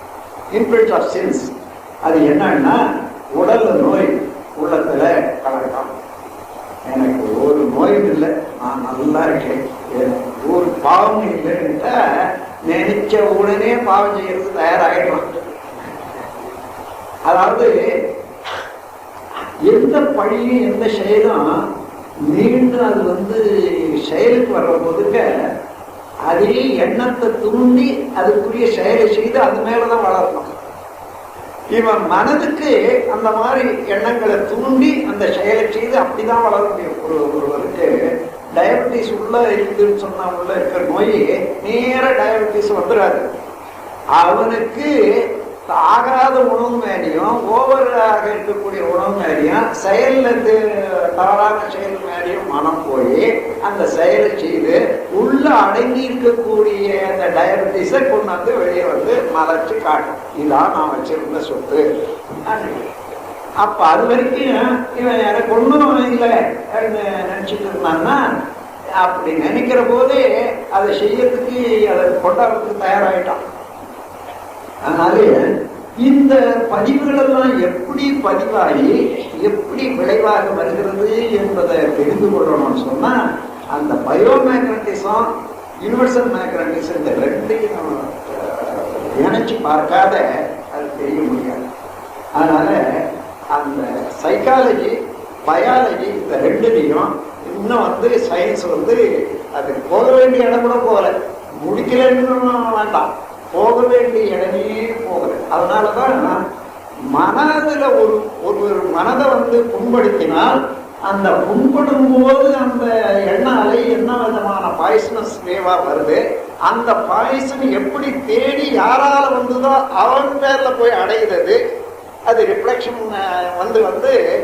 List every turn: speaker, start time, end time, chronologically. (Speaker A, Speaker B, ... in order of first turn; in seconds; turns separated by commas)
Speaker A: 0.5-1.5, Speaker A: 2.0-2.8, Speaker A: 3.3-5.9, Speaker A: 6.9-15.3, Speaker A: 17.3-17.8, Speaker A: 19.7-21.5, Speaker A: 22.3-25.3, Speaker A: 26.2-30.6, Speaker A: 31.7-38.0, Speaker A: 38.5-43.3, Speaker A: 44.1-61.9, Speaker A: 62.5-62.9, Speaker A: 63.6-68.2, Speaker A: 69.0-73.4, Speaker A: 74.8-75.5, Speaker A: 76.0-83.2, Speaker A: 83.7-85.3, Speaker A: 85.8-91.7, Speaker A: 92.3-99.0, Speaker A: 99.5-106.4, Speaker A: 107.1-121.6, Speaker A: 122.3-124.2